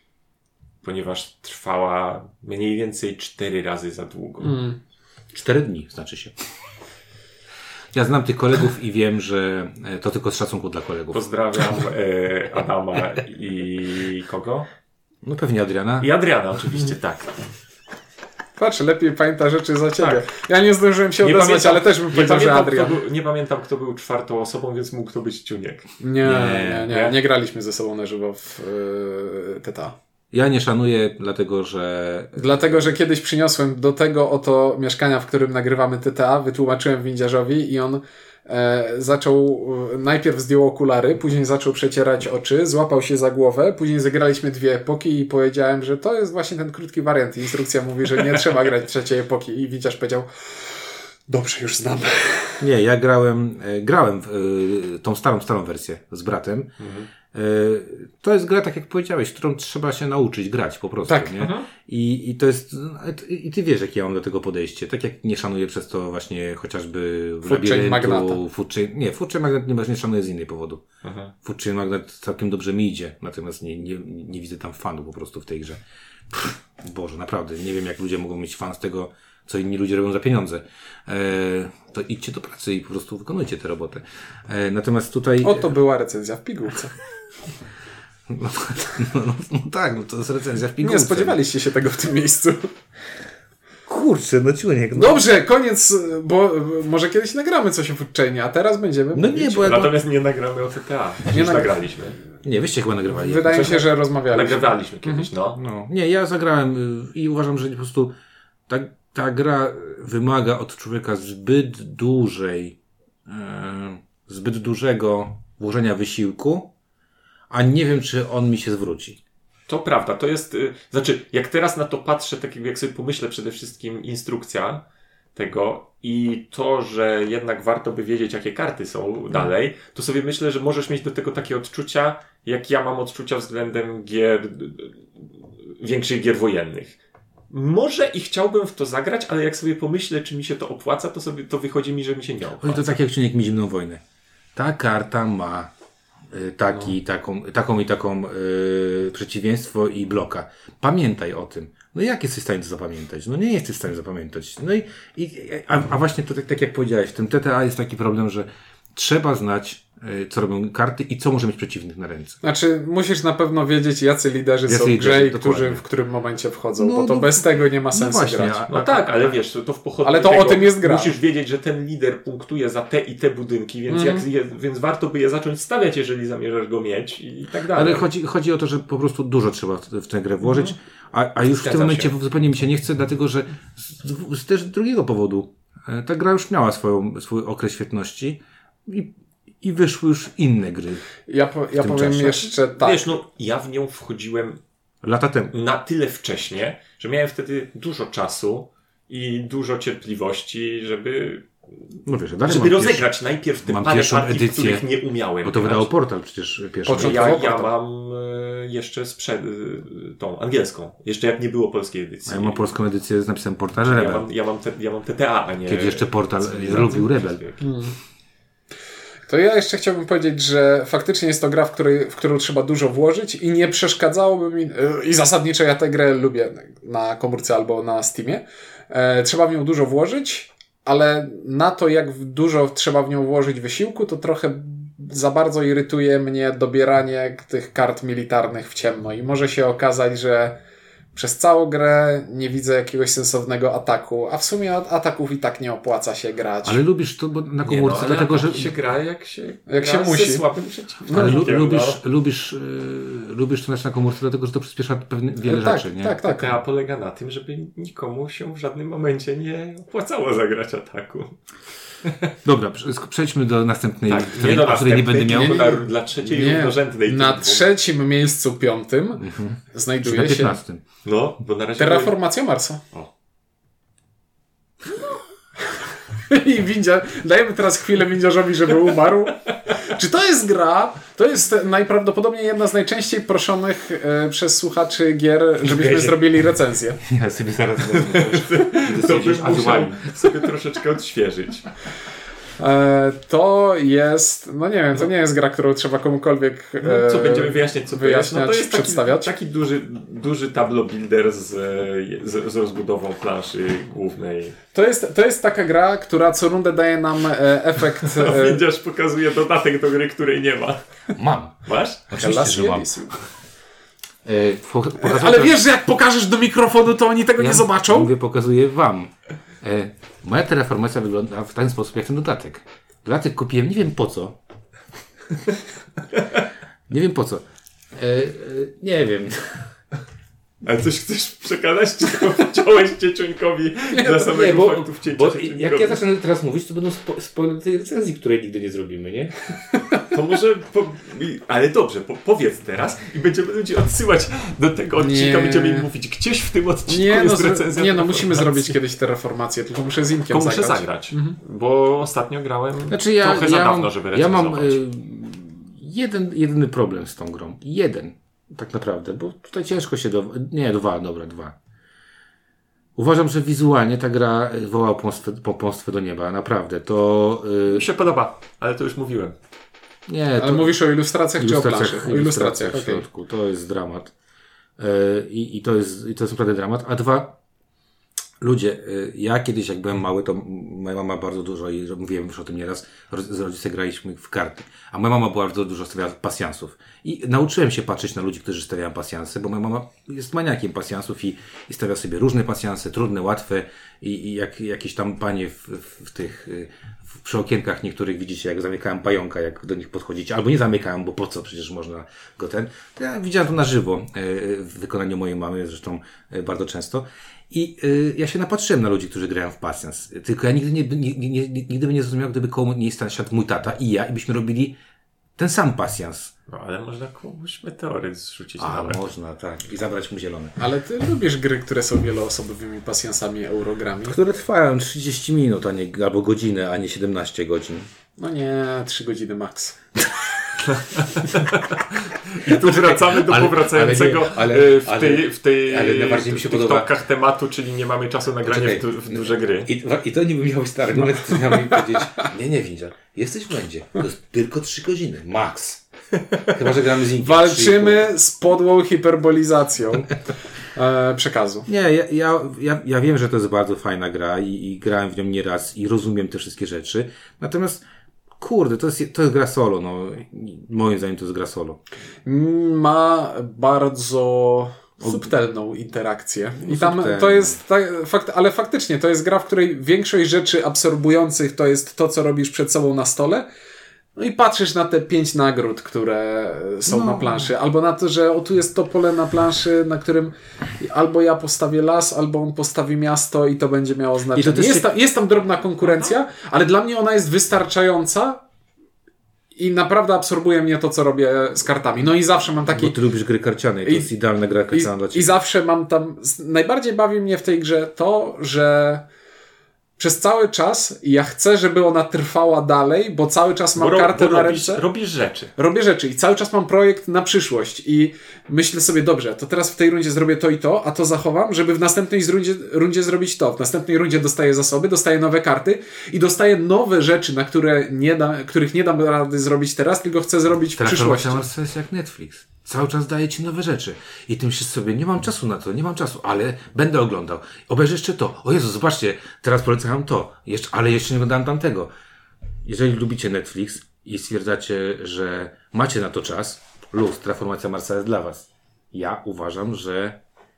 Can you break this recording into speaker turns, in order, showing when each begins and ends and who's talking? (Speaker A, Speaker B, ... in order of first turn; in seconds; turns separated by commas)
Speaker A: 0.8-4.6, Speaker B: 4.4-4.8, Speaker C: 5.3-6.3, Speaker C: 7.9-11.8, Speaker A: 11.1-14.7, Speaker C: 15.2-16.1, Speaker A: 16.0-17.4, Speaker B: 18.6-23.0, Speaker A: 20.0-20.2, Speaker A: 21.2-25.9, Speaker B: 26.0-29.9, Speaker C: 26.2-26.9, Speaker A: 26.8-27.1, Speaker C: 30.3-32.8, Speaker B: 32.4-50.3, Speaker B: 51.3-52.6, Speaker C: 52.6-56.7, Speaker A: 56.8-57.1, Speaker C: 57.3-70.8, Speaker B: 61.1-61.4, Speaker A: 61.4-61.7, Speaker B: 67.5-68.4, Speaker A: 71.0-71.3, Speaker C: 71.4-75.8, Speaker C: 76.3-85.7, Speaker B: 85.4-86.9, Speaker C: 88.3-91.4, Speaker B: 90.8-92.7, Speaker C: 93.9-95.2, Speaker B: 94.9-99.7, Speaker C: 99.1-100.0, Speaker A: 99.6-102.2, Speaker B: 101.3-101.8, Speaker C: 102.4-103.8, Speaker B: 103.1-105.3, Speaker A: 103.4-105.6, Speaker C: 105.5-108.1, Speaker C: 108.7-116.7, Speaker C: 117.5-119.2, Speaker A: 119.7-137.0, Speaker A: 137.5-143.0, Speaker C: 142.6-144.0, Speaker C: 144.5-145.7, Speaker C: 146.3-162.4, Speaker B: 162.4-168.6, Speaker C: 164.7-165.8, Speaker C: 166.8-169.3, Speaker A: 168.7-178.1, Speaker B: 170.0-171.1, Speaker B: 173.9-174.2, Speaker C: 177.7-191.1, Speaker A: 181.4-182.1, Speaker B: 191.3-193.1, Speaker C: 191.7-192.5, Speaker A: 192.7-194.6, Speaker C: 195.0-195.5, Speaker A: 195.5-201.5, Speaker C: 202.0-203.1, Speaker A: 202.4-205.9, Speaker C: 203.6-204.8, Speaker C: 205.4-207.5, Speaker B: 206.8-207.7, Speaker A: 206.9-212.7, Speaker C: 212.3-214.2, Speaker A: 213.8-217.7, Speaker C: 215.7-217.4, Speaker B: 217.6-217.9, Speaker B: 219.3-240.6, Speaker B: 241.1-246.8, Speaker C: 246.6-248.7, Speaker A: 247.6-252.0, Speaker B: 249.7-250.4, Speaker B: 251.1-251.5, Speaker C: 251.1-256.2, Speaker B: 255.4-256.6, Speaker A: 256.2-261.4, Speaker A: 262.0-262.3, Speaker C: 262.4-265.6, Speaker A: 264.1-267.7, Speaker B: 265.3-270.6, Speaker C: 269.2-270.8, Speaker A: 271.0-272.1, Speaker B: 271.8-272.8, Speaker B: 276.3-287.0, Speaker A: 285.6-286.2, Speaker C: 287.0-290.1, Speaker A: 287.8-291.7, Speaker B: 292.6-299.3, Speaker A: 296.8-304.6, Speaker B: 304.7-308.6, Speaker A: 308.0-310.8, Speaker C: 311.1-312.9, Speaker A: 311.6-312.0, Speaker B: 312.1-313.1, Speaker C: 314.2-315.6, Speaker B: 315.0-318.1, Speaker C: 317.4-324.4, Speaker C: 326.9-327.4, Speaker C: 327.9-329.6, Speaker A: 330.6-336.0, Speaker B: 333.9-334.3, Speaker C: 334.1-339.4, Speaker A: 340.1-348.8, Speaker B: 345.0-345.9, Speaker B: 346.9-351.4, Speaker A: 350.3-354.8, Speaker C: 352.9-361.5, Speaker C: 362.9-367.9, Speaker A: 367.7-369.4, Speaker C: 370.1-370.8, Speaker B: 370.4-373.0, Speaker C: 371.4-374.1, Speaker C: 374.8-377.4, Speaker C: 378.4-414.8, Speaker C: 415.4-416.3, Speaker A: 416.5-419.1, Speaker C: 418.6-420.6, Speaker B: 420.6-424.2, Speaker C: 424.0-427.9, Speaker B: 428.2-429.8, Speaker A: 430.7-439.7, Speaker C: 432.4-436.9, Speaker C: 438.4-445.8, Speaker B: 441.3-442.0, Speaker C: 446.4-448.1, Speaker B: 447.2-450.2, Speaker B: 450.7-451.7, Speaker C: 451.7-457.8, Speaker C: 458.4-461.8, Speaker B: 462.2-473.4, Speaker C: 465.0-465.3, Speaker C: 466.6-467.6, Speaker B: 474.1-488.4, Speaker C: 476.9-477.5, Speaker C: 484.3-484.9, Speaker B: 489.6-492.9, Speaker C: 492.7-495.4, Speaker B: 494.7-499.0, Speaker B: 500.0-504.8, Speaker A: 503.7-505.5, Speaker B: 505.6-521.4, Speaker C: 520.8-531.9, Speaker C: 532.6-540.2